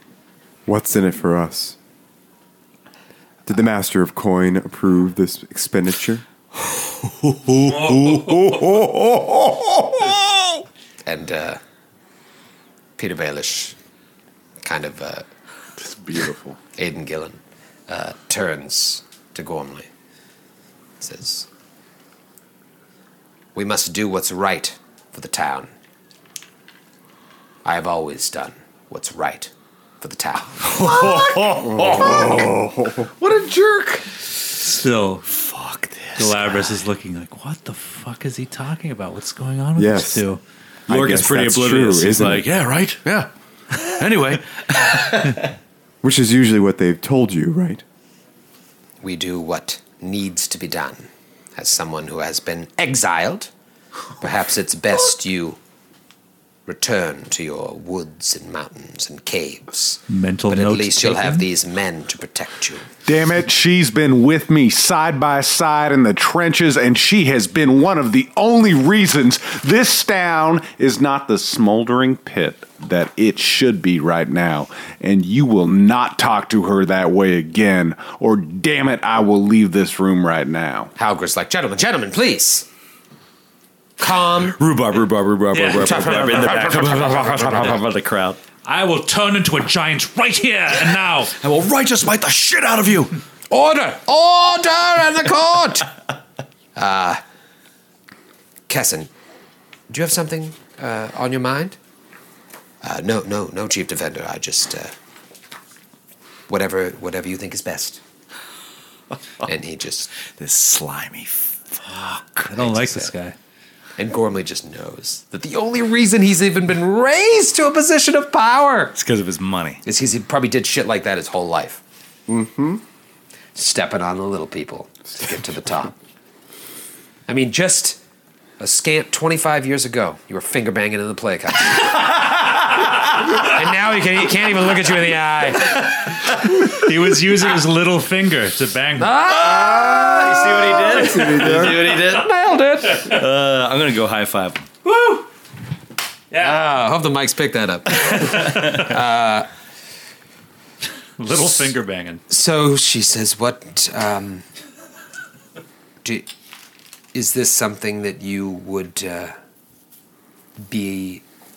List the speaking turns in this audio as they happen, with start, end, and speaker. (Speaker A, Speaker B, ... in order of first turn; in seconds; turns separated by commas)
Speaker A: 0.7-1.8, Speaker A: 3.5-6.2, Speaker B: 7.7-8.6, Speaker C: 8.1-8.7, Speaker D: 11.1-11.6, Speaker D: 13.0-13.8, Speaker D: 14.6-15.3, Speaker C: 15.8-16.6, Speaker D: 16.8-19.9, Speaker D: 21.0-21.5, Speaker D: 23.6-25.7, Speaker D: 27.6-32.5, Speaker E: 30.7-31.8, Speaker A: 31.6-33.1, Speaker C: 33.2-34.0, Speaker B: 34.6-35.3, Speaker E: 35.4-36.6, Speaker B: 36.2-40.4, Speaker A: 39.8-40.2, Speaker A: 40.9-42.5, Speaker E: 40.9-45.5, Speaker A: 46.0-47.8, Speaker D: 49.0-53.5, Speaker D: 54.2-55.6, Speaker D: 56.7-62.9, Speaker B: 60.1-61.5, Speaker C: 63.0-80.9, Speaker D: 81.0-82.7, Speaker D: 84.0-84.6, Speaker E: 84.5-88.4, Speaker B: 85.5-86.7, Speaker D: 85.8-87.8, Speaker B: 88.7-91.3, Speaker E: 91.4-93.1, Speaker D: 93.5-95.9, Speaker D: 96.8-97.2, Speaker D: 98.7-99.1, Speaker D: 99.9-101.8, Speaker D: 102.8-104.9, Speaker D: 106.5-108.0, Speaker D: 109.5-110.1, Speaker E: 110.2-112.5, Speaker D: 112.5-113.1, Speaker B: 112.5-113.3, Speaker D: 114.0-118.9, Speaker E: 119.0-119.8, Speaker D: 119.8-121.8, Speaker A: 122.3-122.8, Speaker D: 123.5-126.0, Speaker D: 127.3-128.0, Speaker D: 128.6-132.2, Speaker D: 133.3-136.1, Speaker B: 136.7-139.1, Speaker D: 139.0-143.2, Speaker E: 139.3-142.3, Speaker A: 141.2-141.9, Speaker E: 143.0-144.7, Speaker B: 144.9-145.2, Speaker B: 146.3-146.6, Speaker D: 146.4-149.5, Speaker B: 151.2-152.2, Speaker D: 152.3-154.5, Speaker D: 157.1-159.3, Speaker D: 160.7-161.2